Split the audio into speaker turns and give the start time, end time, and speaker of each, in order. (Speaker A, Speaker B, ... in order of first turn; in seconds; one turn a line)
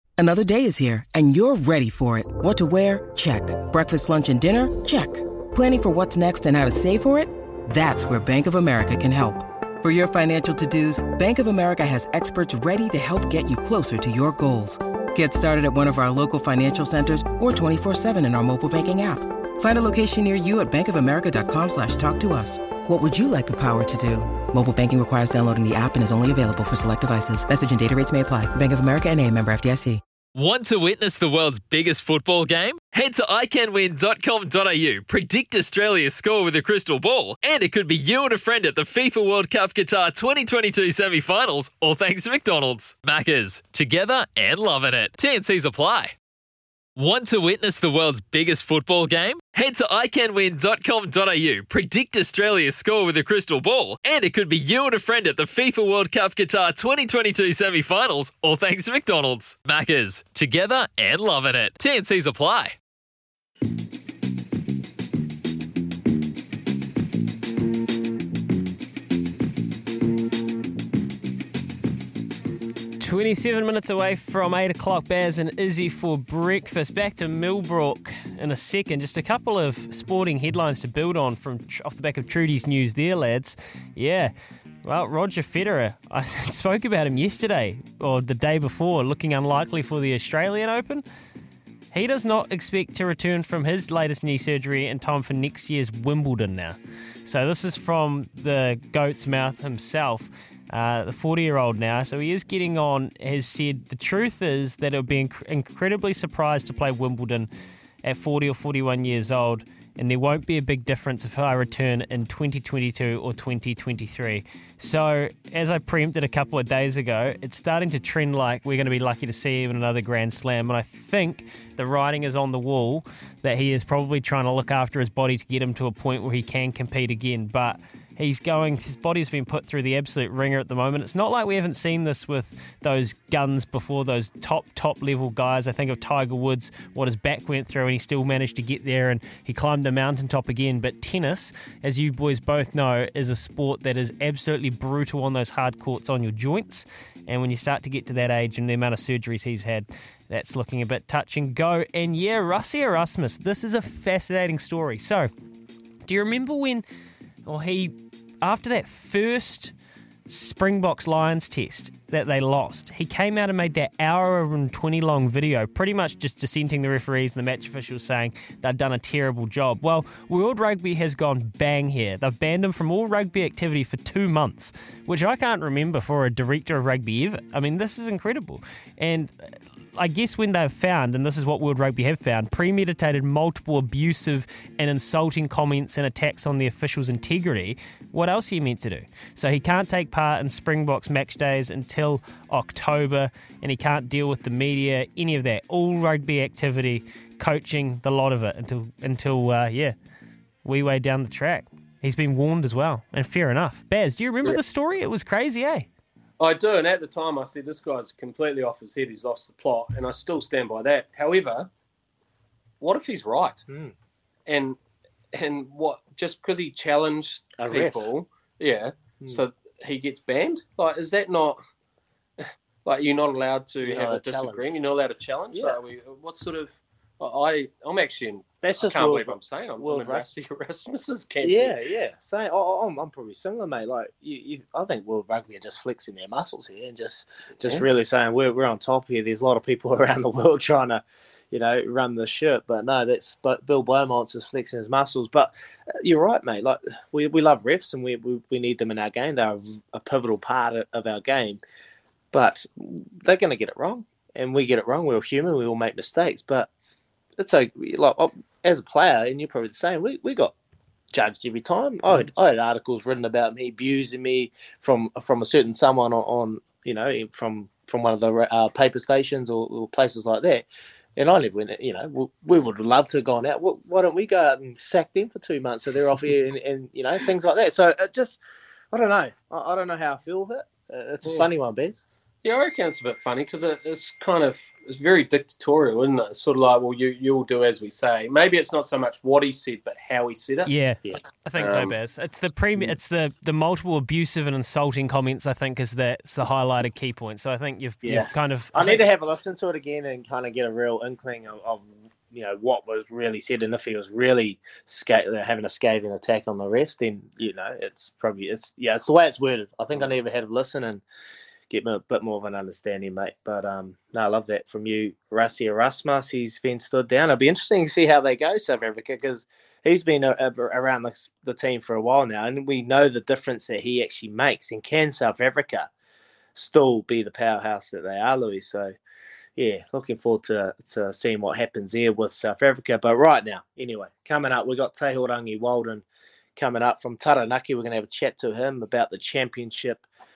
Speaker A: 0.2-30.0
Speaker B: 30.4-46.1
Speaker B: 47.0-62.8
Speaker C: 73.0-84.3
Speaker C: 84.8-91.0
Speaker C: 91.9-107.5
Speaker C: 108.0-155.3
Speaker C: 156.1-156.8
Speaker C: 157.5-159.7
Speaker C: 160.3-179.3
Speaker C: 179.9-199.9
Speaker C: 200.7-205.9
Speaker D: 206.4-211.7
Speaker D: 212.8-213.6
Speaker E: 213.7-213.9
Speaker D: 214.5-214.8
Speaker D: 215.3-221.6
Speaker E: 217.6-218.1
Speaker D: 222.4-231.8
Speaker E: 223.8-224.8
Speaker E: 225.5-225.8
Speaker E: 228.6-230.3
Speaker E: 231.4-251.6
Speaker E: 252.3-256.7
Speaker E: 257.4-260.5
Speaker E: 261.1-270.6
Speaker E: 271.2-278.4
Speaker E: 278.9-282.0
Speaker D: 282.4-290.7
Speaker C: 290.7-299.1
Speaker D: 291.6-291.9
Speaker E: 298.0-311.0
Speaker E: 311.7-325.9
Speaker E: 326.6-328.9
Speaker E: 329.6-336.1
Speaker E: 336.6-340.1